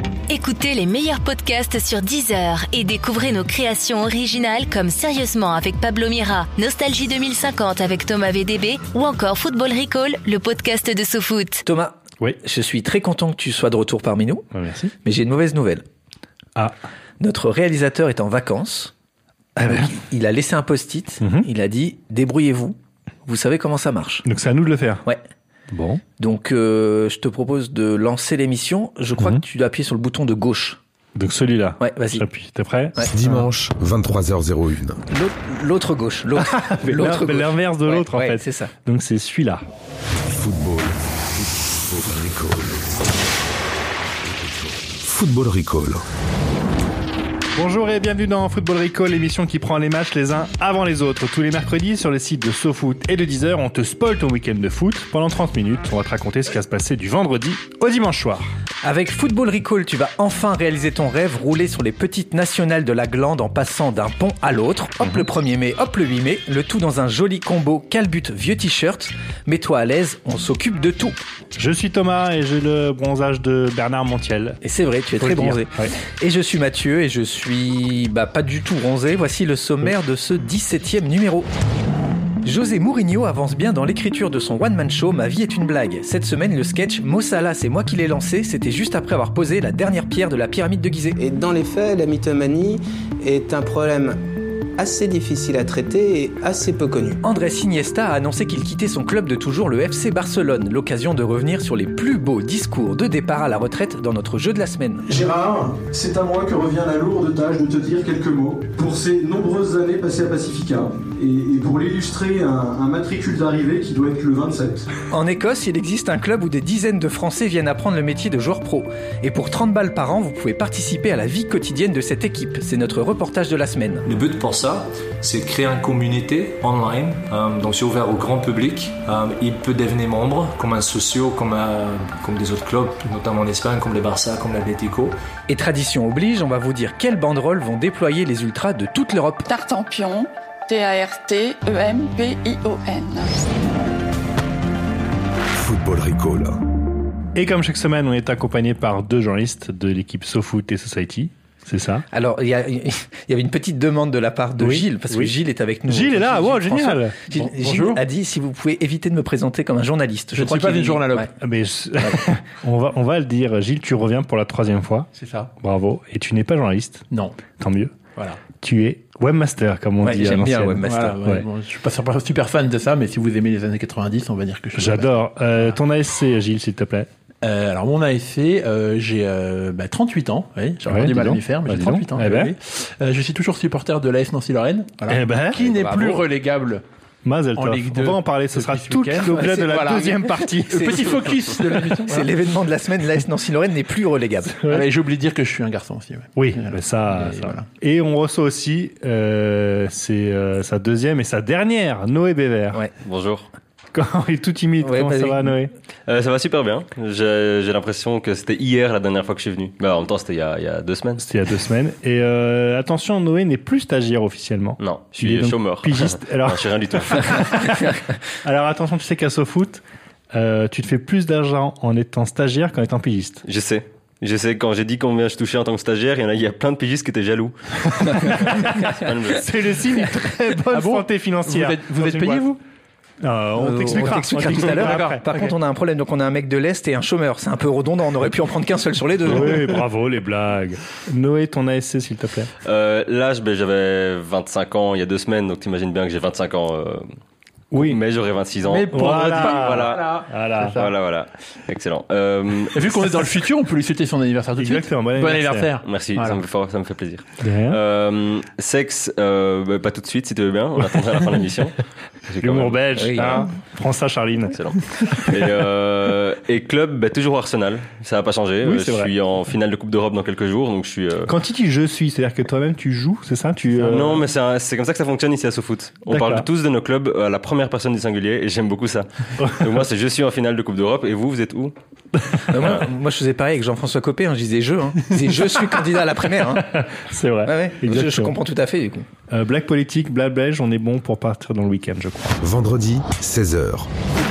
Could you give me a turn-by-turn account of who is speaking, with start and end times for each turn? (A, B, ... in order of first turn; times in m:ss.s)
0:00.3-0:11.6 A
0:11.6-0:14.4 B
0:14.5-0:14.9 C
0:15.0-0:15.8 B
0:17.2-0:18.9 B
0:19.6-0:19.9 C
0:19.7-0:24.2 B
0:21.2-0:21.5 C
0:24.2-0:25.0 C
0:25.7-0:26.0 C
0:26.2-0:30.8 B
0:31.2-0:33.0 C
0:31.8-0:32.2 B
0:33.1-0:35.0 D
0:35.1-0:38.7 B
0:36.4-0:39.6 C
0:40.2-0:43.2 D
0:44.2-0:46.0 D
0:47.5-0:58.5 C
0:58.8-1:11.2 B
1:11.6-1:14.6 C
1:14.6-1:21.5 B
1:15.2-1:15.9 C
1:22.4-1:31.2 B
1:31.2-1:34.2 E
1:34.8-1:37.2 E
1:37.2-1:45.1 B
1:45.0-1:54.9 F
1:55.1-2:04.0 B
2:04.0-2:15.2 G
2:15.5-2:19.5 B
2:19.5-2:23.5 H
2:25.5-2:26.6 D
2:27.3-2:32.0 C
2:32.1-2:41.3 B
2:34.6-2:35.3 C
2:35.9-2:37.2 C
2:37.4-2:38.0 I
2:40.4-2:41.3 I
2:41.4-2:45.1 C
2:45.2-2:45.5 I
2:45.6-2:51.4 C
2:47.1-2:47.4 I
2:48.2-2:48.4 I
2:50.0-2:51.2 B
2:50.9-2:55.0 I
2:54.7-2:57.1 C
2:57.4-3:06.8 I
3:00.8-3:02.5 C
3:05.1-3:05.7 C
3:05.6-3:06.2 B
3:07.2-3:11.4 C
3:07.6-3:10.0 I
3:09.3-3:11.1 B
3:10.7-3:12.3 I
3:11.9-3:14.6 B
3:14.6-3:14.9 C
3:14.7-3:17.6 I
3:16.3-3:22.8 C
3:23.0-3:23.5 J
3:23.9-3:25.7 C
3:24.8-3:25.5 B
3:26.1-3:31.2 J
3:31.2-3:43.4 C
3:34.8-3:37.5 J
3:43.4-3:49.5 J
3:48.0-3:52.4 C
3:50.7-3:52.6 I
3:53.2-3:55.5 C
3:53.6-3:59.7 B
3:54.8-3:55.1 I
3:59.2-4:02.5 C
4:02.6-4:07.1 J
4:07.7-4:08.0 C
4:07.7-4:13.0 J
4:08.6-4:10.9 I
4:08.9-4:10.8 C
4:12.7-4:16.4 I
4:14.6-4:15.7 C
4:15.8-4:21.7 J
4:17.4-4:17.8 C
4:22.3-4:23.4 J
4:22.4-4:24.6 C
4:23.0-4:23.4 B
4:24.5-4:31.3 J
4:28.6-4:29.1 C
4:31.3-4:34.2 C
4:33.8-4:41.7 J
4:36.1-4:36.5 C
4:39.4-4:39.7 C
4:42.5-4:46.7 B
4:46.5-4:48.4 C
4:47.4-4:49.1 B
4:49.3-4:52.4 C
4:52.4-4:53.9 D